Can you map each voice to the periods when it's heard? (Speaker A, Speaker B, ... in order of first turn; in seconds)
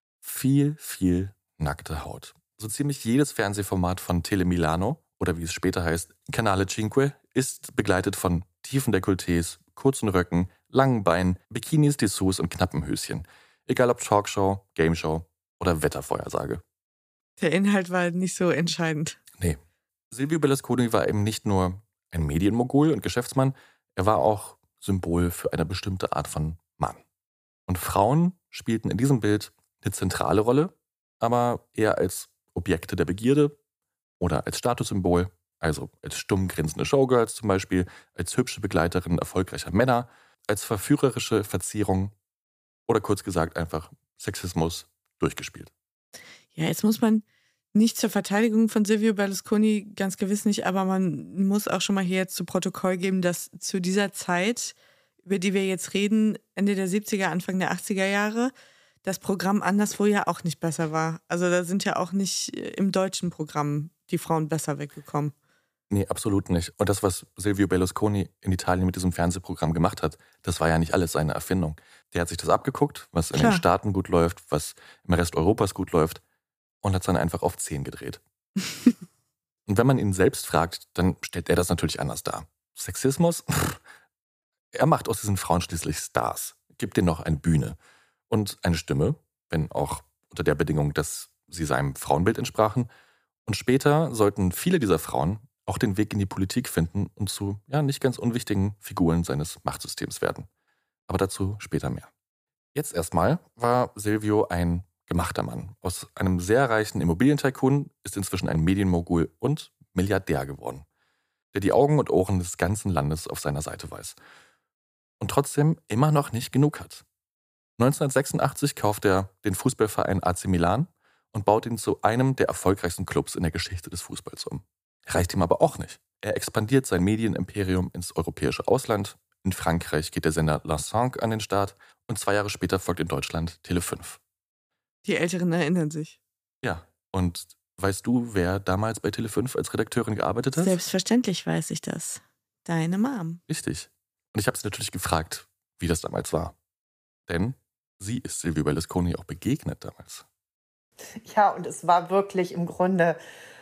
Speaker A: 0.2-16.6, 20.1-27.0, 27.7-33.6, 34.2-42.1, 42.9-45.7, 65.9-76.2, 76.8-78.2, 79.7-83.8, 84.7-87.8, 88.3-92.9, 93.5-100.5, 101.1-102.1, 102.7-110.8, 111.5-114.2, 115.2-117.0, 117.8-134.2, 136.6-140.8, 143.5-146.5, 147.3-150.2
Speaker B: 17.4-19.2, 46.5-58.5, 59.0-65.3, 73.3-73.6, 135.0-136.2, 140.6-143.4
Speaker C: 151.2-153.2